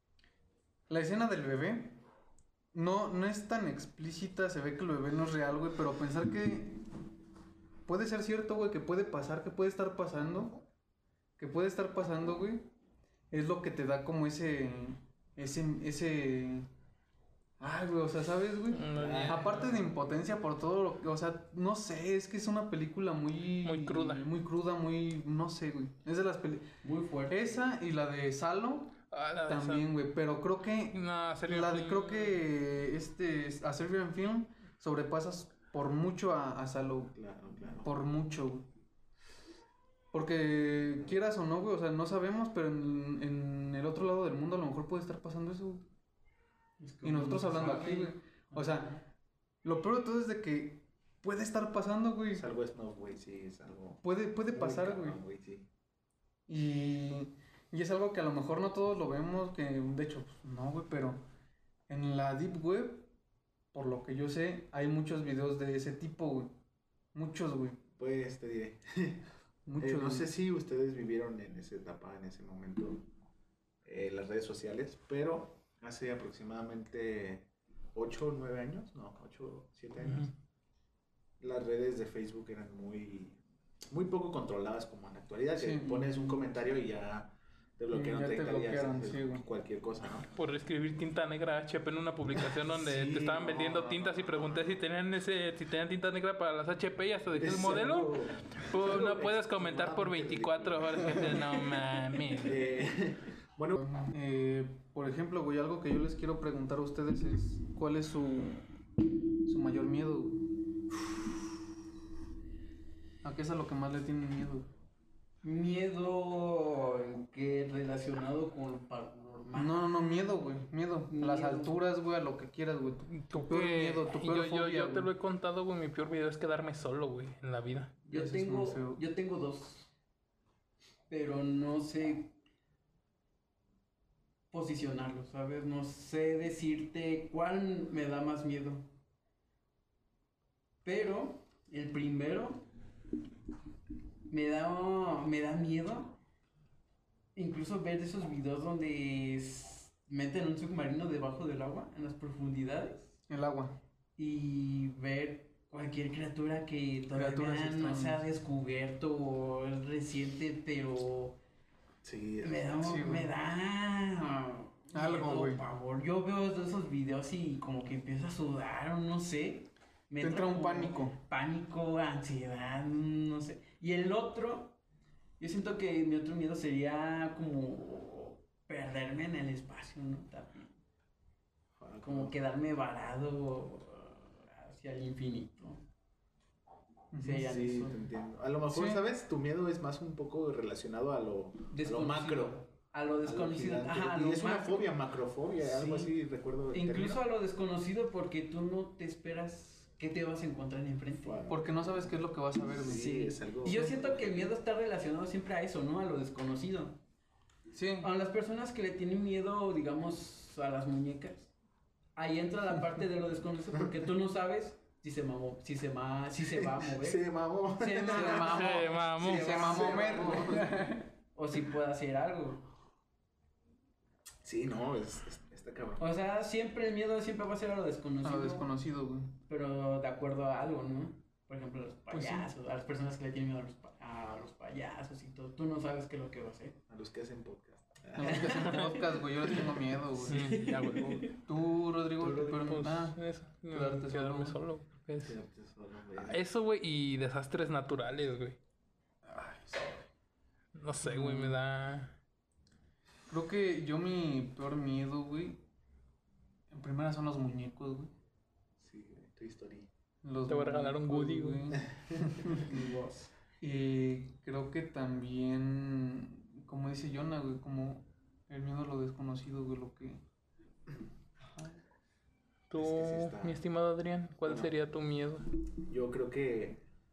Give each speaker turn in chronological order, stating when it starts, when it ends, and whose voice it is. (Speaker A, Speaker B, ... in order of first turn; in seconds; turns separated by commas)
Speaker A: 0.9-2.0, Speaker A: 2.7-6.8, Speaker A: 7.8-10.5, Speaker A: 11.4-12.7, Speaker A: 13.3-16.7, Speaker A: 17.6-26.7, Speaker B: 18.7-19.7, Speaker C: 18.9-19.8, Speaker B: 23.6-24.3, Speaker D: 26.8-27.6, Speaker A: 27.3-29.0, Speaker B: 29.1-29.9, Speaker A: 29.5-37.1, Speaker B: 30.9-32.4, Speaker C: 37.1-37.9, Speaker A: 37.8-38.6, Speaker A: 40.1-45.8, Speaker C: 40.9-41.2, Speaker D: 46.8-49.0, Speaker A: 47.0-49.0, Speaker A: 49.6-52.4, Speaker C: 52.4-55.7, Speaker A: 54.0-55.2, Speaker A: 56.5-61.2, Speaker A: 61.9-63.1, Speaker A: 63.7-66.6, Speaker A: 67.1-67.8, Speaker C: 68.0-69.2, Speaker A: 69.7-70.3, Speaker C: 69.8-73.1, Speaker C: 73.8-80.3, Speaker B: 80.0-80.3, Speaker C: 81.4-83.4, Speaker C: 83.9-90.3, Speaker A: 85.5-86.5, Speaker A: 87.9-89.4, Speaker B: 90.3-102.8, Speaker C: 92.5-94.8, Speaker C: 97.3-101.4, Speaker C: 102.4-103.8, Speaker A: 103.8-108.7, Speaker A: 109.4-110.5, Speaker A: 113.2-114.7, Speaker D: 115.4-120.0, Speaker A: 119.5-125.1, Speaker D: 121.1-121.8, Speaker B: 123.1-128.0, Speaker A: 128.1-129.0, Speaker D: 128.1-129.9, Speaker D: 131.1-132.3, Speaker D: 134.5-138.8, Speaker D: 140.8-142.6, Speaker D: 144.3-146.2, Speaker D: 147.3-153.1, Speaker A: 153.3-153.8, Speaker D: 154.2-161.4, Speaker A: 157.1-158.2, Speaker C: 162.0-162.8, Speaker D: 162.4-174.8, Speaker A: 162.8-163.3, Speaker A: 164.9-165.6, Speaker A: 170.2-171.2, Speaker D: 175.4-180.8, Speaker C: 181.8-182.3, Speaker D: 182.0-185.8, Speaker A: 187.1-187.5, Speaker D: 187.2-188.0, Speaker C: 187.4-192.6, Speaker A: 188.7-189.0, Speaker D: 191.7-194.9, Speaker C: 193.2-197.2, Speaker D: 195.6-196.1, Speaker D: 196.7-201.4, Speaker C: 201.2-204.5, Speaker A: 201.5-203.2, Speaker D: 202.8-207.0, Speaker A: 207.7-208.1, Speaker D: 208.0-211.5, Speaker D: 212.2-217.2, Speaker C: 216.5-218.6, Speaker D: 217.8-220.6, Speaker A: 218.1-221.1, Speaker B: 218.3-219.6, Speaker C: 219.3-220.7, Speaker D: 221.3-222.6, Speaker C: 224.4-226.1, Speaker D: 226.0-228.7, Speaker A: 228.2-229.3, Speaker D: 229.5-236.8, Speaker A: 232.1-232.5, Speaker C: 236.9-238.7, Speaker A: 238.2-240.6, Speaker D: 238.2-239.1, Speaker B: 238.5-239.7, Speaker B: 240.2-241.3, Speaker D: 240.2-241.4, Speaker A: 241.4-244.6, Speaker D: 242.2-242.8, Speaker B: 242.6-245.3, Speaker C: 245.2-246.4, Speaker B: 246.2-248.6, Speaker A: 249.2-250.1, Speaker B: 250.7-252.1, Speaker A: 251.0-251.6, Speaker A: 253.3-255.6, Speaker A: 256.7-258.1, Speaker C: 258.8-259.9, Speaker A: 260.2-262.6, Speaker B: 260.5-261.8, Speaker C: 261.7-262.6, Speaker D: 262.4-263.3, Speaker A: 263.6-270.2, Speaker B: 272.7-275.4, Speaker C: 272.8-273.6, Speaker C: 274.4-274.7, Speaker C: 275.9-276.8